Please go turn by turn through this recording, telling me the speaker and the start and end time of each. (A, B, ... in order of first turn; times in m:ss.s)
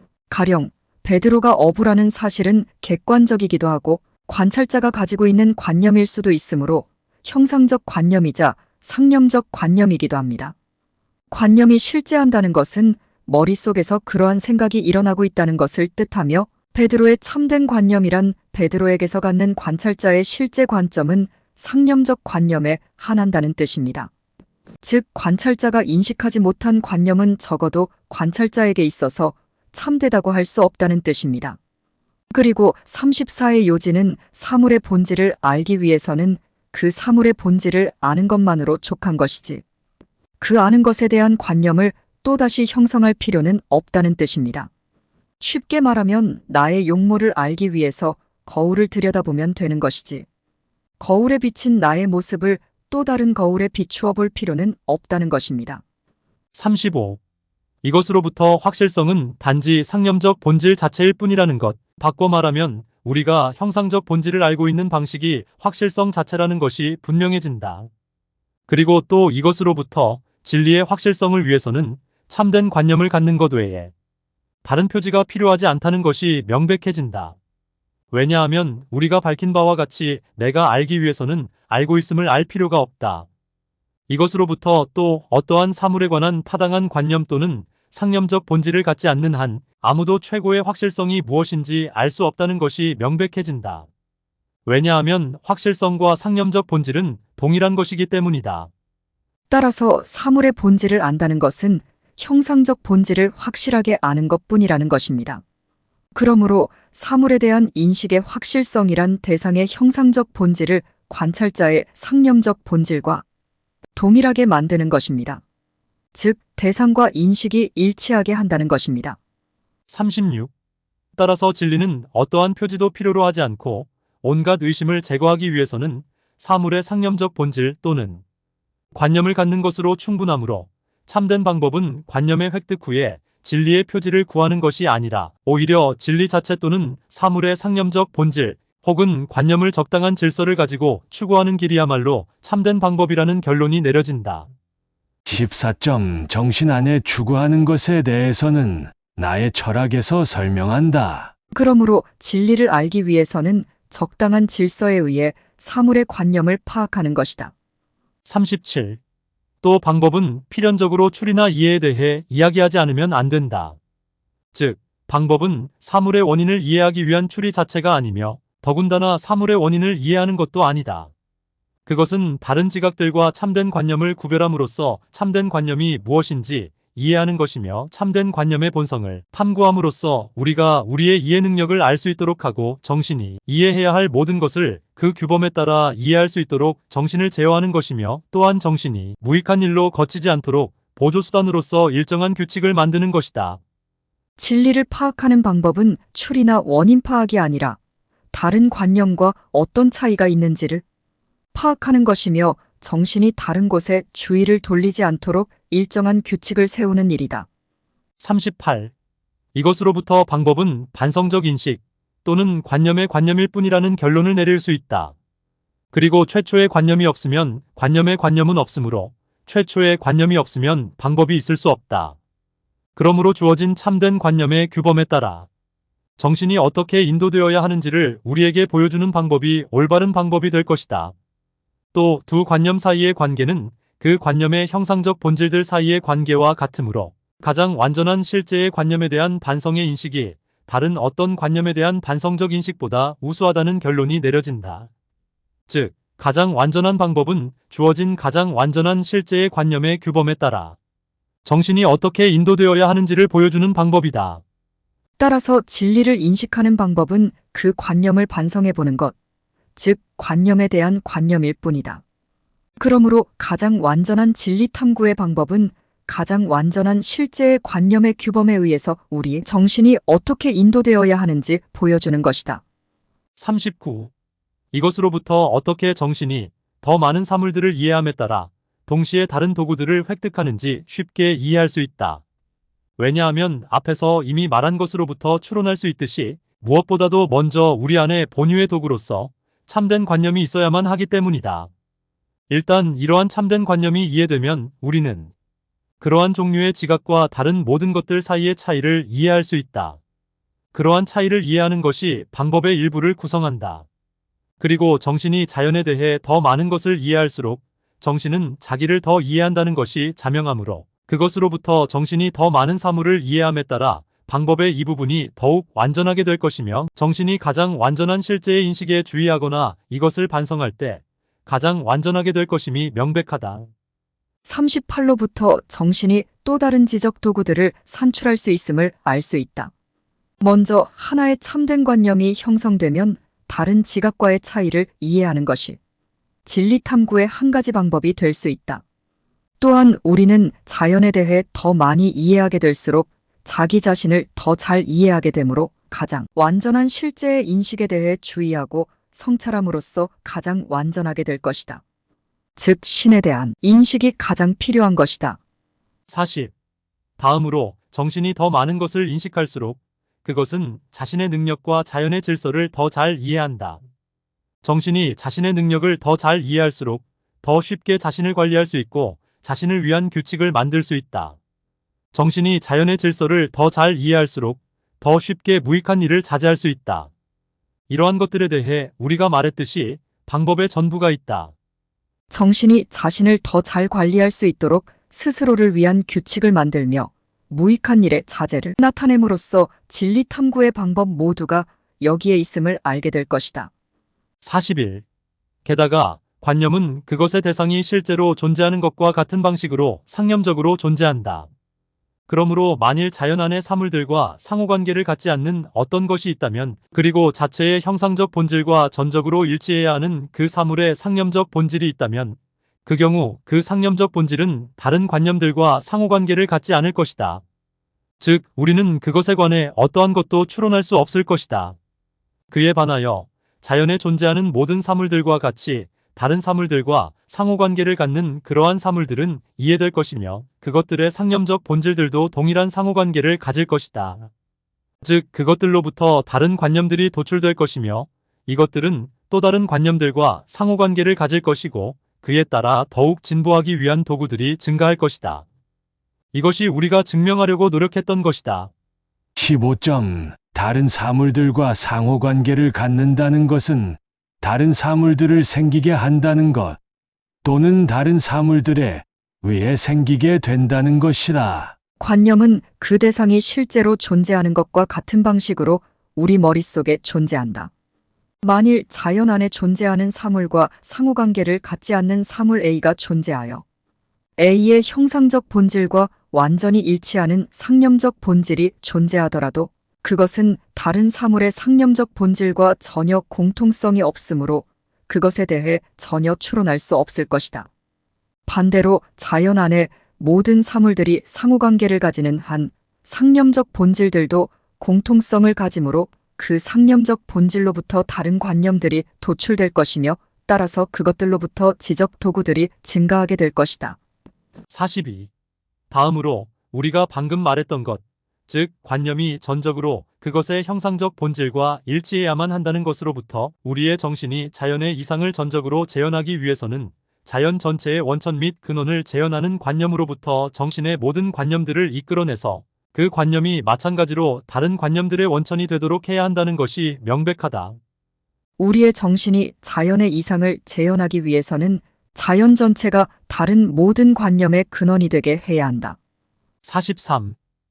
0:00.3-0:10.5 A
0:11.3-0:24.1 A
0:24.8-0:31.6 A
0:32.3-0:39.6 A
0:40.4-0:44.7 A
0:45.4-0:50.3 A
0:51.0-0:55.8 A
0:56.5-0:57.2 B
0:57.8-1:07.9 B
1:08.7-1:13.9 B
1:14.6-1:17.4 B
1:18.1-1:23.3 B
1:24.1-1:33.9 B
1:34.6-1:38.7 B
1:39.5-1:45.4 A
1:46.2-1:53.2 A
1:54.0-1:55.4 A
1:56.2-1:59.2 A
1:59.9-2:00.5 B
2:01.2-2:08.2 B
2:08.9-2:24.5 B
2:25.3-2:31.3 C
2:31.5-2:37.5 A
2:38.2-2:39.0 B
2:39.6-2:43.8 B
2:44.5-2:51.1 B
2:51.9-3:13.6 B
3:14.4-3:17.8 A
3:18.3-3:20.8 A
3:21.5-3:27.5 A
3:28.2-3:28.9 B
3:29.5-3:35.2 B
3:35.9-3:42.2 B
3:43.0-3:45.5 B
3:46.2-3:51.1 B
3:51.9-4:04.9 B
4:05.7-4:10.8 B
4:11.4-4:14.4 B
4:15.2-4:19.1 A
4:19.8-4:22.0 A
4:22.8-4:32.6 A
4:33.4-4:34.1 B
4:34.7-4:42.2 B
4:43.0-4:51.7 B
4:52.5-4:55.3 B
4:56.0-5:00.0 B
5:00.7-5:03.9 B
5:04.6-5:23.7 B
5:24.4-5:29.7 A
5:30.4-5:35.8 A
5:36.5-5:38.8 A
5:39.6-5:51.8 A
5:52.6-5:55.4 A
5:56.1-5:56.5 B
5:57.2-6:03.8 B
6:04.6-6:11.4 B
6:12.1-6:17.1 B
6:17.9-6:21.5 B
6:22.3-6:33.7 A
6:34.4-6:35.0 B
6:35.6-6:41.5 B
6:42.3-6:57.4 B
6:58.2-7:01.8 B
7:02.5-7:14.3 B
7:15.0-7:25.5 B
7:26.3-7:28.7 B
7:29.4-7:36.8 C
7:37.4-7:41.8 C
7:42.0-7:47.7 A
7:48.4-7:53.6 A
7:54.4-8:07.7 A
8:08.5-8:24.0 A
8:24.7-8:25.3 B
8:25.9-8:47.8 B
8:48.6-8:56.0 A
8:56.6-8:57.4 B